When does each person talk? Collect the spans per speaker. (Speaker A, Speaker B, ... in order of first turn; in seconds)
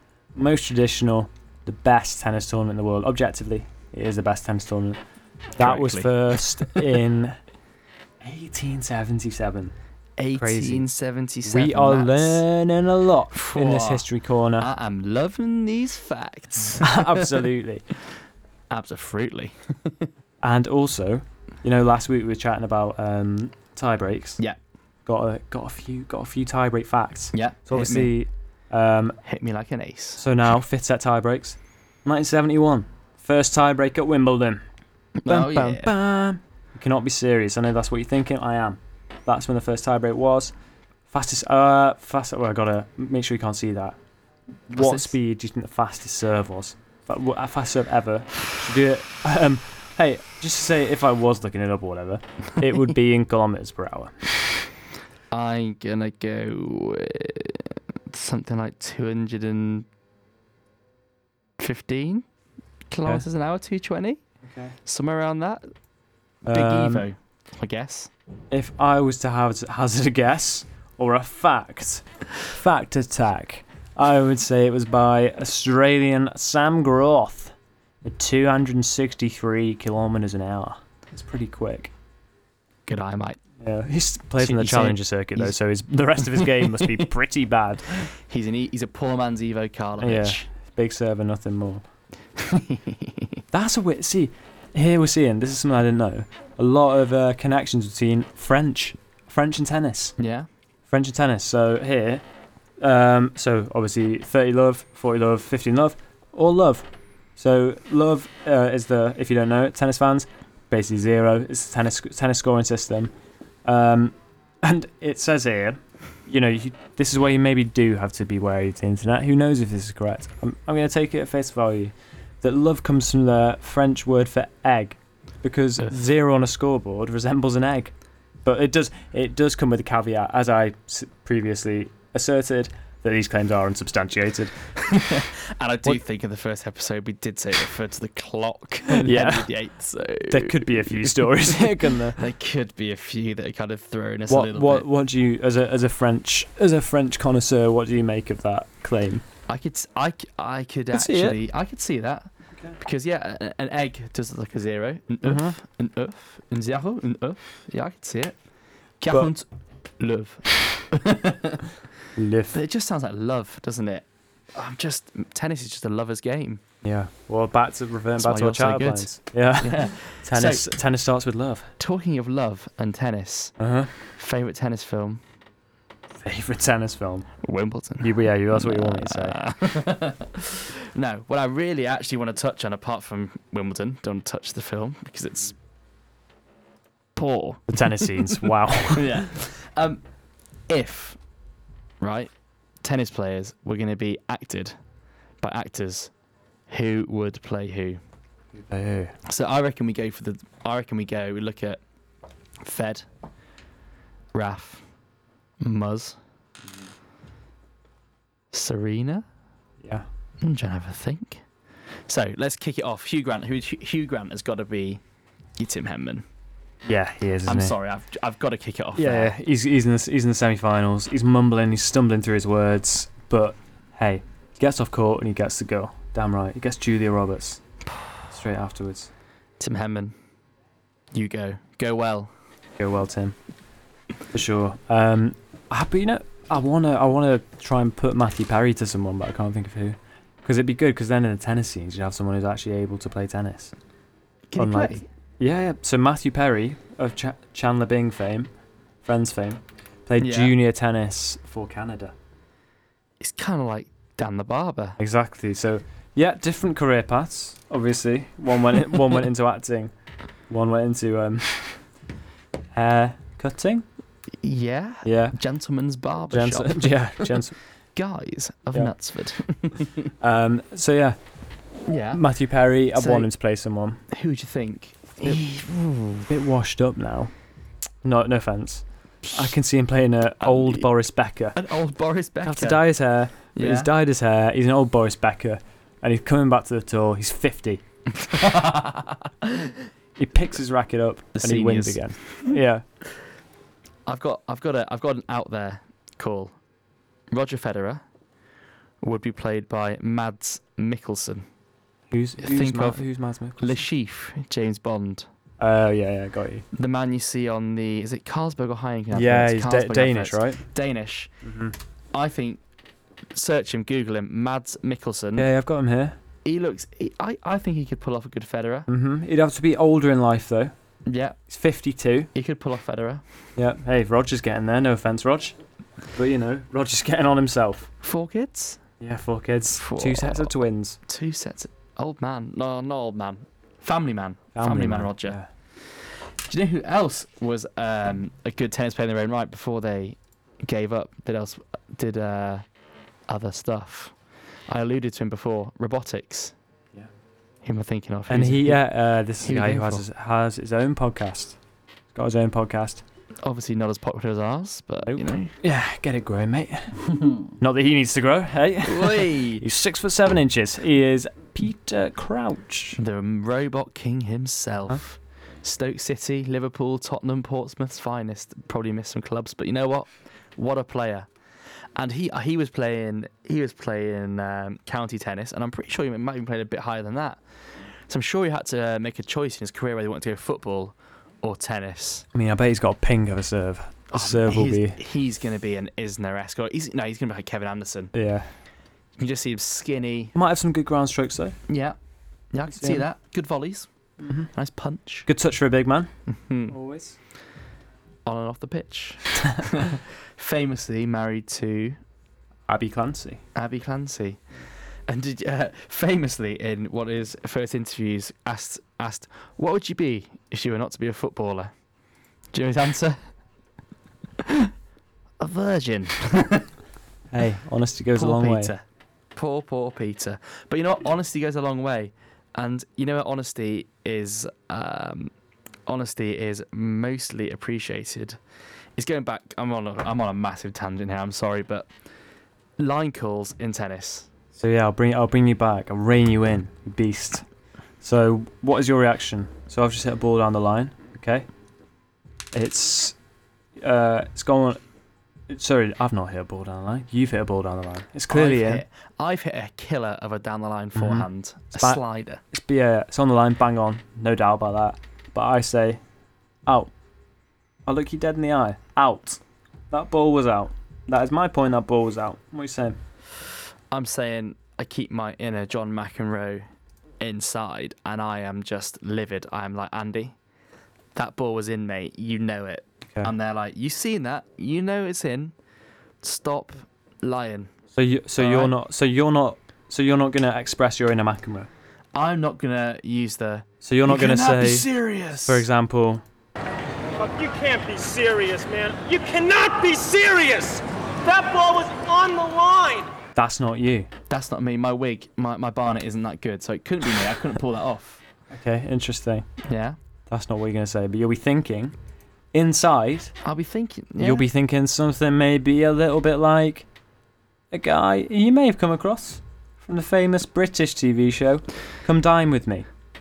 Speaker A: 0.3-5.0, 5.5-7.4, 8.2-9.7, 10.3-10.9, 11.4-14.7, 16.8-17.8, 20.4-24.4, 25.1-29.2, 30.2-34.6, 35.3-40.5, 41.1-44.0, 44.7-54.2, 64.4-64.8, 66.5-67.0, 68.5-81.9, 83.6-88.1, 90.0-91.8, 93.5-100.2, 100.9-102.2, 102.8-106.8, 107.4-113.1, 113.6-127.9, 128.4-134.6, 138.9-139.5, 140.3-142.2, 144.3-149.2, 150.9-151.4, 155.2-155.6, 162.2-162.6, 166.8-171.7, 173.6-173.9, 176.2-177.3, 178.0-179.4, 187.7-189.3, 198.5-199.2, 216.8-217.7, 218.9-227.6, 228.3-229.1, 232.8-233.3, 234.3-243.7, 244.6-248.5, 249.0-252.1, 255.0-259.9, 260.5-261.8, 262.7-263.9, 265.0-265.4, 266.3-267.6, 270.2-271.2, 272.1-274.0, 276.3-277.3, 278.0-281.6, 282.4-287.8, 290.2-292.8, 302.1-303.8, 305.6-306.6, 309.1-310.6, 311.4-311.7, 315.4-316.2, 318.9-320.7, 321.5-322.3, 323.6-325.6, 326.1-327.9, 329.0-331.0, 334.5-335.5, 348.3-351.6, 352.1-353.0, 355.1-357.0, 357.6-363.0, 382.3-385.0, 388.1-388.5, 390.3-391.6, 392.7-393.0, 394.2-394.5, 395.3-396.1, 396.7-397.1, 402.7-403.4, 417.3-418.7, 434.5-437.4, 438.0-441.4, 442.5-443.1, 443.8-444.8, 445.5-448.8, 450.9-456.0, 457.9-459.4, 459.9-463.0, 477.9-481.7, 483.8-484.9, 485.4-486.2, 493.4-494.1, 498.5-499.5, 500.3-501.9, 502.5-503.3, 504.2-506.9, 507.7-512.9
Speaker B: 5.6-6.9, 10.2-12.4, 13.3-17.5, 18.7-20.1, 27.3-28.1, 29.2-30.2, 35.2-35.9, 44.7-45.1, 55.3-59.9, 61.6-62.2, 62.9-64.2, 64.8-65.7, 66.5-68.1, 82.8-83.4, 84.4-85.5, 86.2-87.0, 88.1-90.5, 92.4-93.4, 100.2-100.5, 134.8-144.9, 149.5-158.3, 159.0-159.4, 160.0-161.7, 162.5-166.6, 168.2-170.7, 171.8-173.5, 174.2-175.2, 177.4-185.6, 187.1-190.0, 190.7-191.2, 192.0-192.3, 192.8-194.7, 195.4-196.1, 196.7-198.0, 199.2-201.8, 202.6-203.1, 204.3-204.8, 205.6-206.2, 208.5-209.2, 210.4-211.4, 212.1-215.0, 215.6-216.2, 217.4-219.3, 229.6-230.1, 231.1-232.3, 244.5-245.1, 250.2-250.5, 253.2-255.0, 264.4-267.4, 267.9-270.1, 271.9-272.2, 272.9-273.3, 274.1-276.3, 279.2-279.5, 280.4-280.9, 281.5-282.8, 283.5-283.9, 288.1-289.8, 291.3-292.5, 294.1-296.5, 297.3-298.0, 299.0-301.4, 302.4-303.0, 303.6-305.3, 306.7-311.3, 312.1-312.6, 313.3-315.5, 316.4-318.9, 321.1-321.4, 322.3-323.2, 328.0-328.8, 329.7-330.5, 331.1-342.6, 343.3-344.1, 344.7-346.5, 347.6-348.8, 349.4-350.0, 353.4-355.5, 358.8-359.6, 363.0-371.3, 371.9-377.4, 378.1-382.2, 384.1-388.1, 389.2-390.3, 391.7-392.0, 392.5-393.9, 394.5-395.3, 396.3-396.7, 398.2-402.0, 403.5-404.4, 405.1-411.7, 412.5-413.2, 414.4-414.7, 415.4-416.7, 418.1-418.8, 419.3-425.3, 425.9-428.4, 428.9-431.9, 432.8-434.3, 448.3-452.4, 463.9-466.6, 467.2-470.4, 471.1-475.5, 476.2-477.7, 478.4-478.7, 482.1-485.6, 494.3-498.2, 499.6-500.0, 503.4-504.4
Speaker C: 487.2-493.1